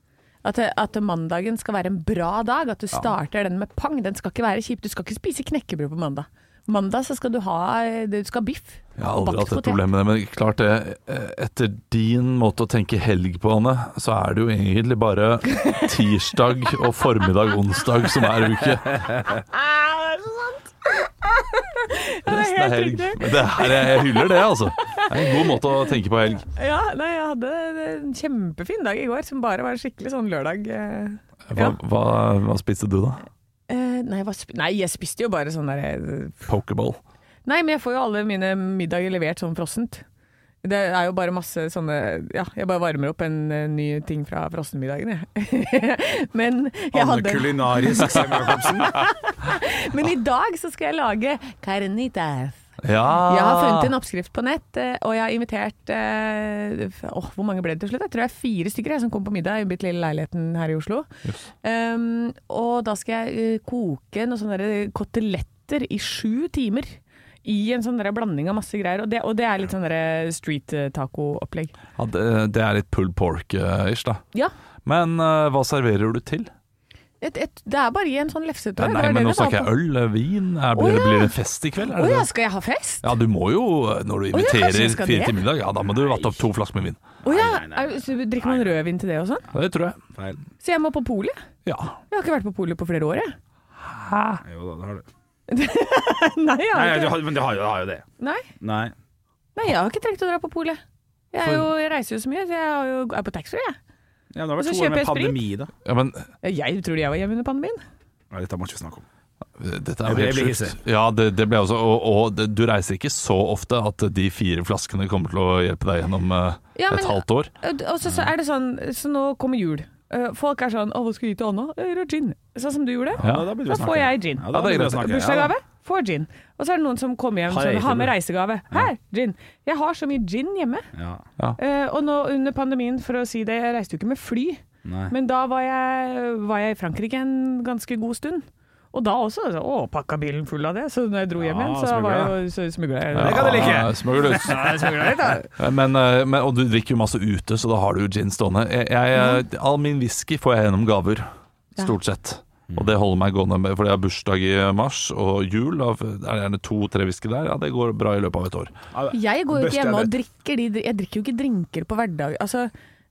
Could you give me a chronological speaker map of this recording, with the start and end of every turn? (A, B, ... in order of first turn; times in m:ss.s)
0:00.4-0:09.8 A
0:09.0-0:19.1 B
0:19.4-0:25.6 A
0:22.2-0:26.4 B
0:26.5-0:31.8 A
0:31.5-0:33.2 B
0:33.7-0:36.4 A
0:36.4-0:37.0 B
0:37.4-0:40.0 A
0:40.6-0:52.6 A
0:46.9-0:49.0 C
0:52.8-0:53.9 B
0:53.2-1:01.1 A
1:01.6-1:11.7 A
1:12.0-1:14.2 B
1:14.8-1:16.5 B
1:17.2-1:19.7 A
1:18.8-1:22.3 B
1:20.7-1:21.3 A
1:21.9-1:23.1 A
1:23.0-1:27.0 B
1:24.3-1:25.4 A
1:27.2-1:29.4 A
1:27.2-1:28.8 C
1:29.5-1:30.0 B
1:30.1-1:30.4 C
1:30.6-1:31.4 A
1:31.6-1:32.0 B
1:32.1-1:33.4 A
1:33.8-1:34.4 B
1:34.4-1:35.0 C
1:35.5-1:37.3 A
1:36.7-1:38.0 C
1:38.2-1:38.5 A
1:38.6-1:38.9 C
1:39.5-1:40.8 A
1:41.3-1:43.8 A
1:44.3-1:45.7 C
1:44.6-1:45.4 A
1:45.8-1:46.3 B
1:46.4-1:47.8 A
1:48.3-1:49.0 C
1:49.6-1:57.5 B
1:50.0-1:50.8 C
1:56.8-2:10.9 A
2:03.2-2:05.5 C
2:03.2-2:03.5 B
2:04.5-2:05.2 B
2:07.5-2:08.1 C
2:10.9-2:11.2 C
2:11.6-2:25.4 A
2:14.8-2:15.1 C
2:21.4-2:22.3 C
2:23.1-2:24.7 B
2:23.2-2:25.4 C
2:25.6-2:38.7 B
2:29.2-2:29.4 A
2:32.7-2:32.9 C
2:38.9-2:40.1 C
2:39.1-2:42.7 A